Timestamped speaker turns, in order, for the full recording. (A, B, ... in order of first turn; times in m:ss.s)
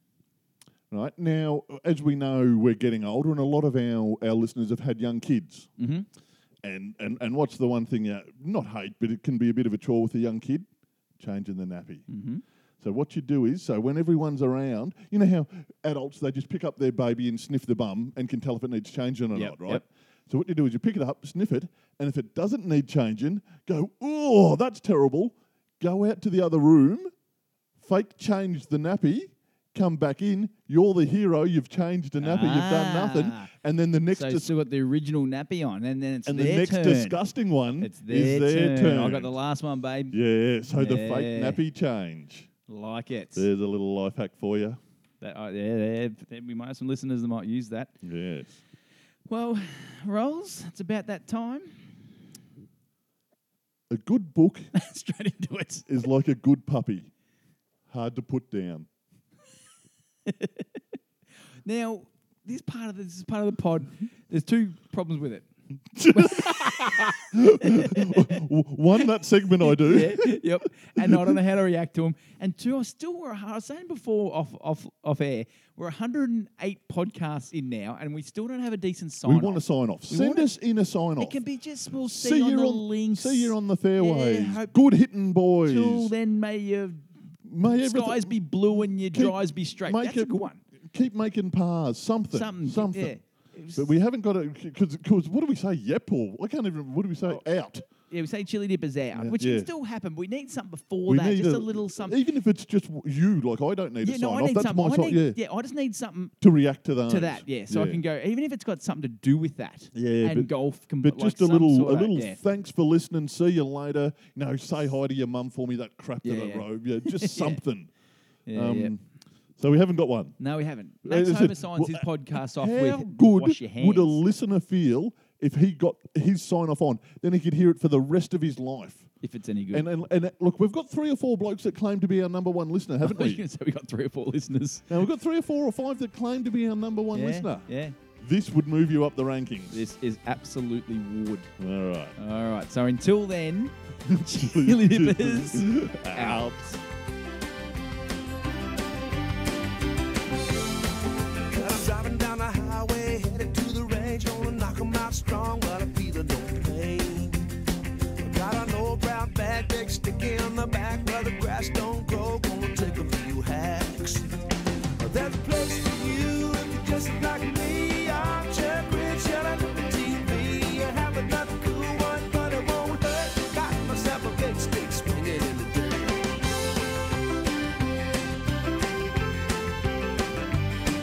0:00.9-0:05.7 A
0:05.8-0:06.1 B
0:06.6-0:10.6 A
0:11.2-0:12.0 A
0:12.1-0:12.4 B
0:12.8-0:27.1 A
0:19.3-0:19.8 B
0:27.8-0:34.5 A
0:32.2-0:33.5 B
0:34.1-0:37.2 B
0:36.2-0:39.3 A
0:37.8-0:40.1 B
0:40.1-0:42.5 A
0:40.7-0:41.6 B
0:42.7-0:43.5 B
0:43.3-0:44.8 A
0:45.2-0:47.9 B
0:48.0-0:48.6 A
0:49.3-0:52.1 B
0:53.9-0:54.7 A
0:54.7-0:55.9 B
0:55.9-0:57.1 A
0:57.9-0:58.9 A
1:00.3-1:00.7 B
1:01.6-1:05.5 B
1:06.0-1:11.4 A
1:06.1-1:08.4 B
1:09.6-1:20.5 B
1:19.2-1:21.4 A
1:21.2-1:24.7 B
1:22.0-1:26.1 A
1:25.6-1:27.1 B
1:27.4-1:33.2 A
1:27.6-1:30.6 B
1:32.3-1:33.9 B
1:33.7-1:37.8 A
1:38.0-1:42.2 B
1:39.1-1:39.7 A
1:41.0-1:45.4 A
1:44.0-1:46.4 B
1:46.4-1:48.0 A
1:47.1-1:52.4 B
1:49.9-1:57.9 A
1:56.2-1:57.6 B
1:58.5-1:58.9 B
1:58.5-1:59.0 A
1:59.6-2:00.4 A
2:00.4-2:04.2 B
2:01.0-2:09.1 A
2:09.2-2:09.9 B
2:09.7-2:13.4 A
2:13.0-2:14.9 B
2:14.9-2:17.7 A
2:17.1-2:18.0 B
2:18.2-2:19.8 A
2:19.7-2:21.5 B
2:21.6-2:22.2 A
2:22.2-2:26.8 B
2:24.0-2:26.6 A
2:31.5-2:37.5 C
2:38.2-2:44.3 C
2:45.0-2:56.3 C